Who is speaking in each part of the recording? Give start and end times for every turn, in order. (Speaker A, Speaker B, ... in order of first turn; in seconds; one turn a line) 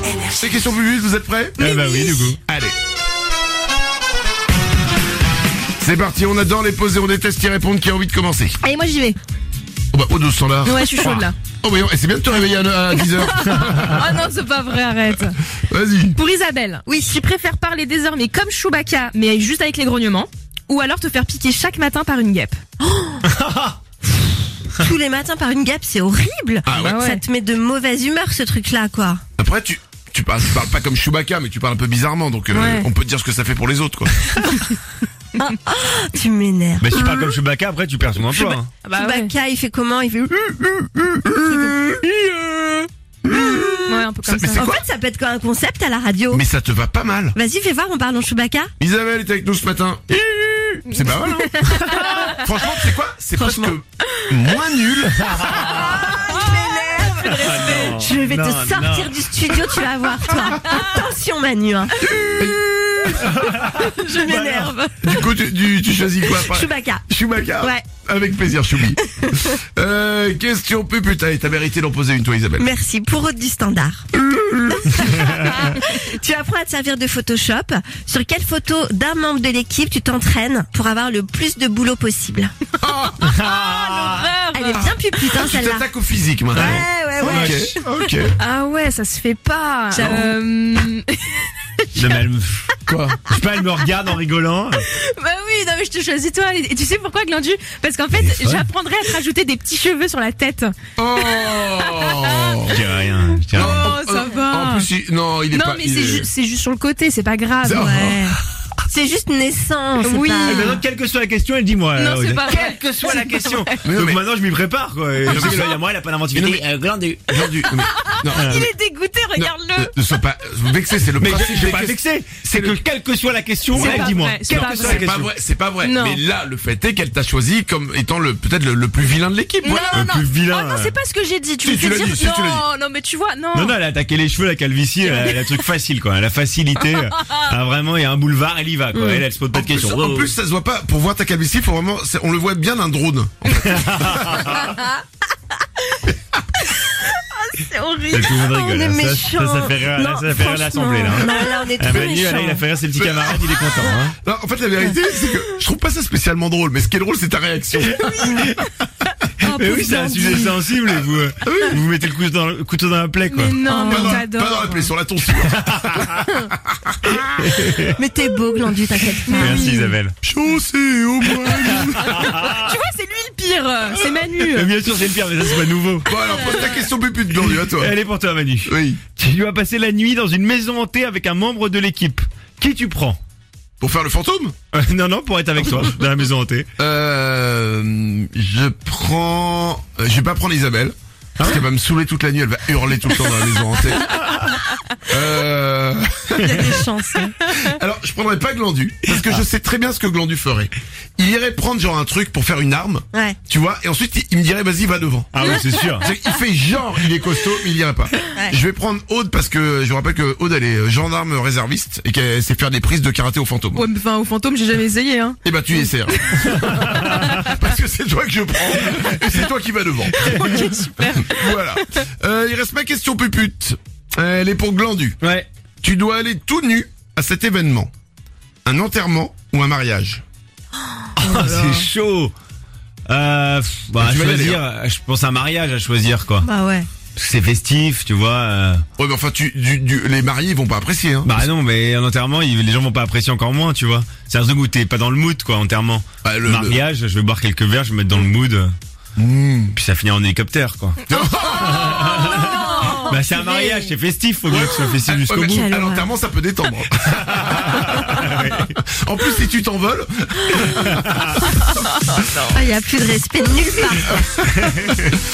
Speaker A: 0.4-1.6
Speaker B: 1.6-2.4
Speaker C: 1.6-2.3
Speaker A: 2.4-2.7
Speaker A: 5.8-8.6
Speaker C: 8.6-9.2
Speaker A: 9.9-14.1
Speaker C: 10.6-11.3
Speaker C: 12.9-15.4
Speaker A: 15.6-16.2
Speaker C: 16.1-22.6
Speaker D: 22.8-23.2
Speaker B: 23.3-23.7
Speaker D: 24.2-29.2
Speaker A: 26.6-27.0
Speaker C: 26.7-27.2
Speaker A: 29.4-34.4
Speaker C: 32.5-32.9
Speaker D: 35.4-37.3
Speaker B: 36.8-38.7
Speaker C: 38.3-39.3
Speaker D: 38.9-42.0
Speaker C: 41.5-42.9
Speaker D: 43.3-43.8
Speaker A: 43.3-44.8
Speaker C: 43.9-44.7
Speaker D: 44.5-46.4
Speaker A: 46.3-47.4
Speaker D: 47.3-48.7
Speaker A: 48.8-50.2
Speaker A: 50.8-55.7
Speaker C: 50.9-52.4
Speaker D: 53.4-53.8
Speaker B: 55.3-56.0
Speaker D: 55.6-62.0
Speaker C: 56.0-57.9
Speaker B: 57.4-59.6
Speaker A: 62.0-63.3
Speaker B: 63.4-64.7
Speaker D: 63.6-65.3
Speaker A: 65.0-72.7
Speaker D: 66.2-67.0
Speaker D: 69.2-69.5
Speaker D: 72.6-74.1
Speaker A: 74.2-75.4
Speaker D: 74.8-82.5
Speaker A: 82.8-83.2
Speaker C: 83.2-85.1
Speaker B: 83.2-84.2
Speaker D: 84.5-85.9
Speaker A: 84.7-88.3
Speaker B: 86.5-87.7
Speaker D: 86.5-87.7
Speaker C: 88.4-91.5
Speaker D: 89.9-90.3
Speaker B: 91.9-94.8
Speaker A: 92.9-93.2
Speaker C: 94.9-102.7
Speaker B: 98.1-98.7
Speaker A: 101.0-102.8
Speaker B: 102.7-104.0
Speaker C: 103.5-104.9
Speaker A: 103.5-106.3
Speaker C: 105.5-108.1
Speaker A: 107.6-108.4
Speaker D: 107.8-108.4
Speaker D: 108.9-110.8
Speaker C: 110.0-110.8
Speaker B: 110.4-117.5
Speaker C: 111.9-113.8
Speaker A: 113.8-114.2
Speaker A: 115.2-115.8
Speaker C: 115.3-115.6
Speaker A: 116.3-116.6
Speaker A: 117.3-118.7
Speaker C: 117.7-119.9
Speaker B: 118.3-118.7
Speaker A: 119.3-122.8
Speaker B: 121.2-125.3
Speaker C: 123.7-125.2
Speaker A: 123.7-130.1
Speaker C: 125.8-126.2
Speaker C: 129.6-133.8
Speaker B: 129.9-130.9
Speaker A: 131.6-132.6
Speaker B: 133.5-140.3
Speaker C: 135.0-135.6
Speaker D: 138.9-139.2
Speaker A: 139.5-144.6
Speaker B: 143.6-144.7
Speaker D: 146.8-152.6
Speaker B: 148.1-154.1
Speaker A: 151.9-152.2
Speaker A: 152.9-158.5
Speaker B: 157.8-158.5
Speaker B: 159.4-163.6
Speaker D: 159.4-160.6
Speaker A: 161.4-161.8
Speaker C: 163.3-164.9
Speaker A: 163.7-167.4
Speaker D: 163.7-164.1
Speaker B: 165.7-166.2
Speaker B: 167.3-167.9
Speaker D: 168.0-169.8
Speaker C: 169.2-170.0
Speaker B: 169.3-170.1
Speaker A: 170.2-172.4
Speaker B: 171.7-172.6
Speaker C: 172.2-174.8
Speaker A: 174.0-174.2
Speaker B: 174.5-176.1
Speaker A: 176.0-177.9
Speaker C: 176.3-176.8
Speaker B: 177.5-183.2
Speaker A: 178.7-179.0
Speaker A: 183.8-184.5
Speaker B: 184.7-186.7
Speaker A: 186.8-194.2
Speaker A: 195.1-196.8
Speaker D: 196.4-197.3
Speaker A: 197.6-213.9
Speaker D: 203.1-203.4
Speaker B: 205.3-206.1
Speaker C: 213.7-217.1
Speaker A: 215.4-225.2
Speaker B: 216.9-217.2
Speaker C: 220.1-222.0
Speaker B: 225.2-225.5
Speaker A: 225.8-227.9
Speaker A: 228.6-230.2
Speaker B: 231.2-232.3
Speaker D: 231.2-231.8
Speaker B: 233.1-236.5
Speaker A: 234.0-234.6
Speaker D: 236.4-236.9
Speaker B: 237.1-238.8
Speaker A: 239.0-241.5
Speaker B: 241.2-248.7
Speaker A: 246.2-246.8
Speaker A: 249.2-249.8
Speaker B: 249.7-251.0
Speaker A: 251.1-252.3
Speaker B: 251.6-255.7
Speaker D: 251.9-253.7
Speaker C: 252.4-253.0
Speaker A: 254.5-261.6
Speaker D: 255.5-256.1
Speaker B: 257.3-258.7
Speaker B: 260.8-261.2
Speaker D: 262.5-264.2
Speaker A: 264.0-264.3
Speaker B: 264.6-265.1